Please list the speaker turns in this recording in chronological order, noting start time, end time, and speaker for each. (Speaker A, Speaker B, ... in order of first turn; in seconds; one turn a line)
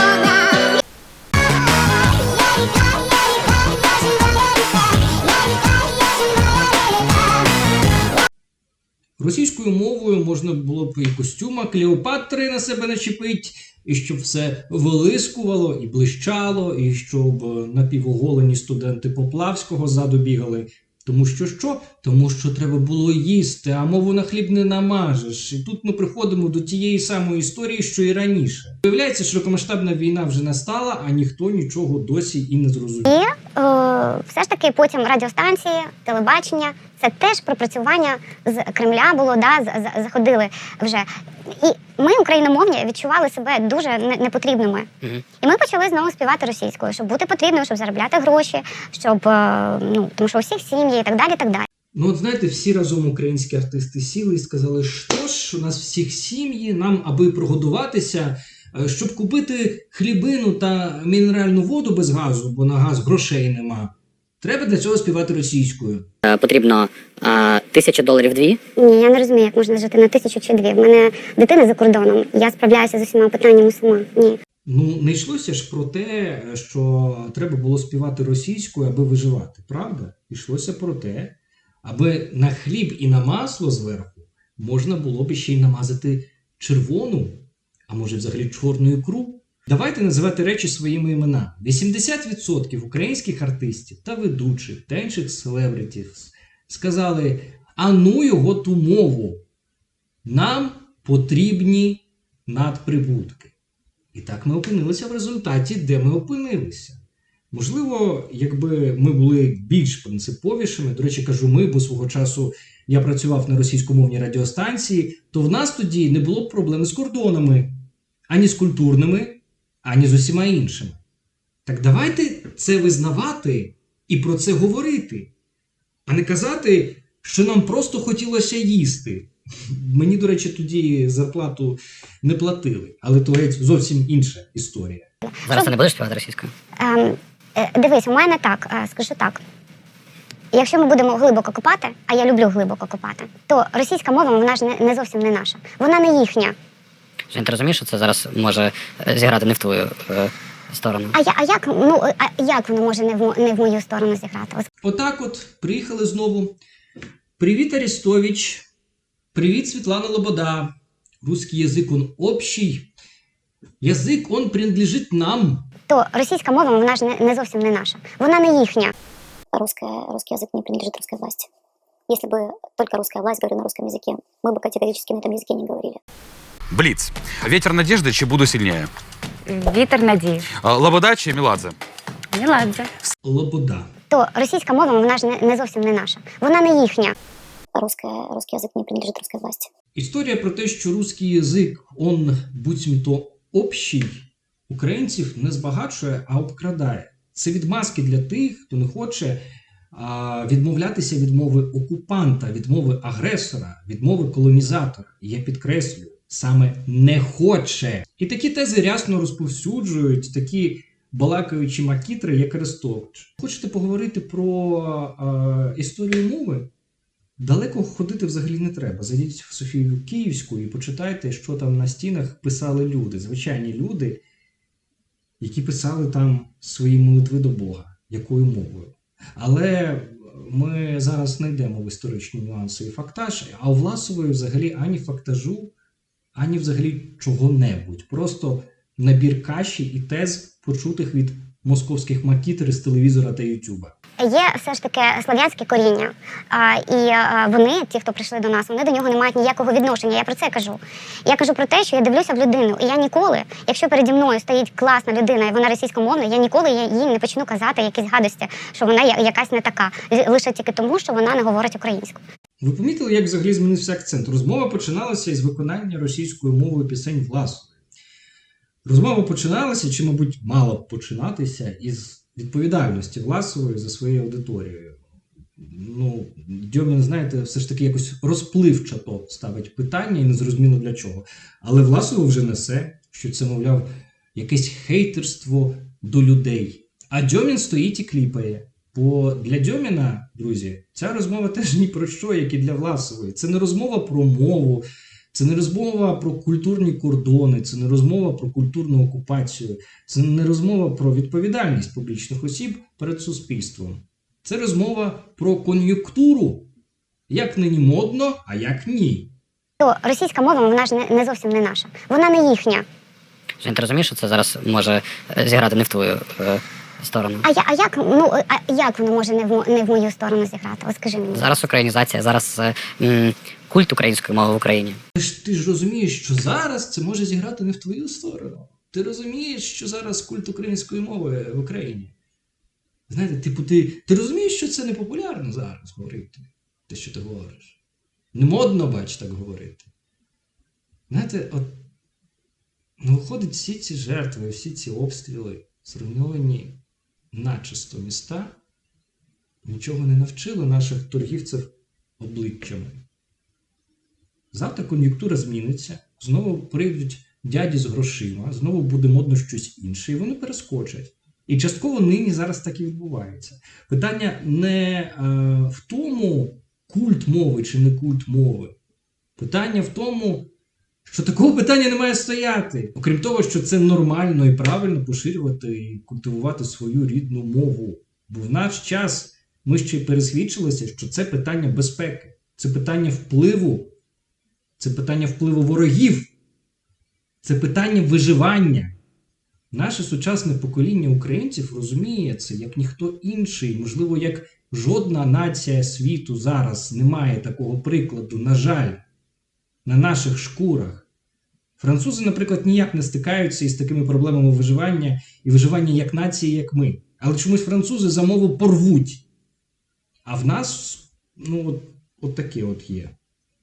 Speaker A: 9.2-33.1
Speaker B: 33.1-44.9
Speaker B: 45.4-51.7
Speaker A: 51.9-66.1
Speaker C: 66.2-68.6
Speaker B: 68.8-74.4
Speaker A: 74.7-99.4
Speaker A: 100.2-103.5
Speaker A: 104.1-107.0
Speaker A: 107.5-117.8
Speaker A: 118.3-121.0
Speaker A: 121.7-125.3
Speaker A: 126.1-135.1
Speaker B: 135.2-135.7
Speaker C: 135.5-136.5
Speaker B: 136.8-139.4
Speaker B: 140.5-146.6
Speaker C: 147.3-151.2
Speaker B: 151.2-154.7
Speaker A: 154.8-156.6
Speaker A: 157.4-158.6
Speaker A: 159.3-160.7
Speaker A: 161.2-162.9
Speaker A: 163.8-165.7
Speaker B: 165.9-168.9
Speaker D: 169.5-171.5
Speaker D: 172.1-176.0
Speaker E: 176.7-178.9
Speaker E: 180.6-181.7
Speaker A: 183.2-183.9
Speaker B: 184.1-187.2
Speaker D: 187.8-189.7
Speaker A: 189.9-216.7
Speaker A: 217.4-224.2
Speaker A: 225.4-235.7
Speaker A: 236.4-243.9
Speaker B: 244.2-262.2
Speaker A: 262.6-267.7
Speaker A: 268.9-275.0
Speaker A: 275.6-306.7
Speaker A: 307.3-309.3
Speaker B: 309.8-312.9
Speaker C: 313.6-317.5
Speaker B: 317.4-321.5
Speaker C: 321.3-325.0
Speaker A: 325.1-332.1
Speaker A: 333.1-337.8
Speaker A: 338.3-339.9
Speaker A: 341.1-341.8
Speaker A: 343.0-346.8
Speaker A: 347.3-348.6
Speaker A: 349.6-353.0
Speaker A: 354.5-368.7
Speaker A: 369.4-370.5
Speaker A: 371.1-383.9
Speaker A: 384.8-386.3
Speaker A: 387.4-389.0
Speaker A: 389.7-399.0
Speaker A: 399.9-401.1
Speaker A: 401.8-409.2
Speaker A: 410.2-413.1